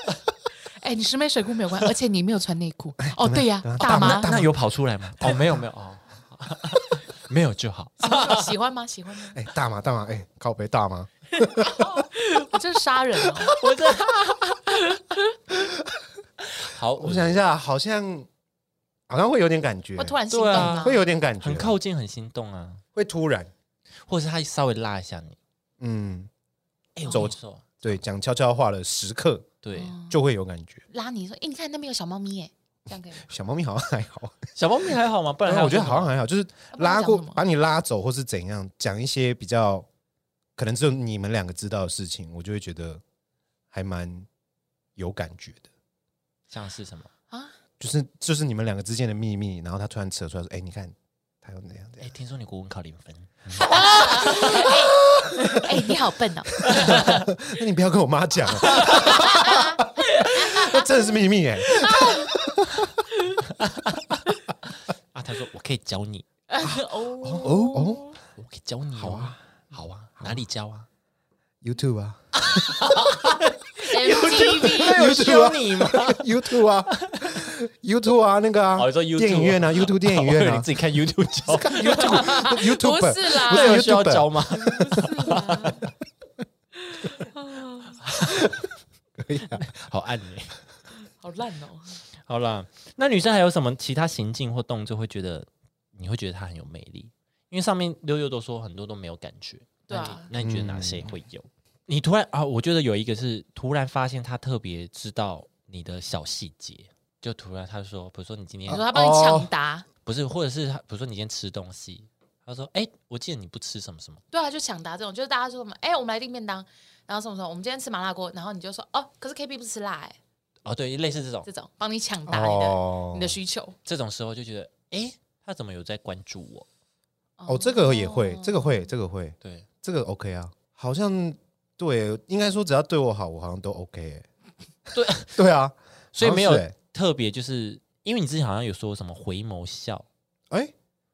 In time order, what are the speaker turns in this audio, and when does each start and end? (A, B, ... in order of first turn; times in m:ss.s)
0:00.8-0:04.3 A
0:03.0-0:04.5 B
0:03.8-0:08.5 C
0:08.0-0:09.4 A
0:09.3-0:12.0 B
0:11.6-0:13.6 A
0:13.5-0:14.5 C
0:14.7-0:15.2 A
0:15.6-0:15.9 B
0:16.5-0:17.4 C
0:17.0-0:18.3 B
0:19.1-0:21.8 B
0:20.0-0:21.0 A
0:20.3-0:22.8 C
0:22.9-0:23.5 B
0:24.0-0:25.4 C
0:25.8-0:26.3 B
0:27.0-0:28.0 C
0:27.1-0:29.5 B
0:29.6-0:29.9 C
0:29.7-0:30.2 A
0:30.1-0:30.8 B
0:30.9-0:33.3 A
0:33.2-0:34.5 B
0:34.5-0:36.1 C
0:35.4-0:39.9 B
0:36.7-0:37.4 A
0:40.6-0:43.0 B
0:43.7-0:44.3 B
0:45.0-0:45.7 B
0:46.5-0:47.1 C
0:47.3-0:47.6 A
0:47.8-0:52.1 B
0:52.0-0:54.7 C
0:53.6-0:55.7 B
0:53.6-0:57.2 A
0:56.6-1:03.0 B
0:56.6-0:57.2 C
0:58.6-1:02.3 A
0:58.8-0:59.2 C
1:03.4-1:04.2 C
1:05.1-1:06.2 C
1:06.5-1:08.2 A
1:06.6-1:08.1 B
1:08.4-1:10.9 C
1:09.0-1:09.4 B
1:11.6-1:13.0 B
1:12.4-1:16.3 C
1:13.9-1:15.0 A
1:14.4-1:20.7 B
1:16.9-1:17.4 C
1:18.8-1:22.2 C
1:21.4-1:24.4 B
1:21.8-1:23.8 A
1:23.4-1:25.9 C
1:24.6-1:25.8 A
1:26.9-1:28.0 A
1:28.0-1:28.4 C
1:29.2-1:29.7 B
1:29.5-1:30.6 C
1:31.2-1:32.0 A
1:32.2-1:48.8 C
1:39.9-1:40.3 A
1:40.4-1:41.1 B
1:48.7-1:49.8 A
1:48.7-1:49.5 B
1:50.0-1:54.2 C
1:54.3-2:00.2 A
2:00.6-2:01.5 C
2:01.4-2:03.8 A
2:02.3-2:03.4 B
2:03.8-2:06.7 C
2:07.4-2:08.9 A
2:07.5-2:14.3 B
2:09.4-2:09.7 C
2:14.9-2:15.4 C
2:15.2-2:16.7 B
2:16.1-2:20.1 C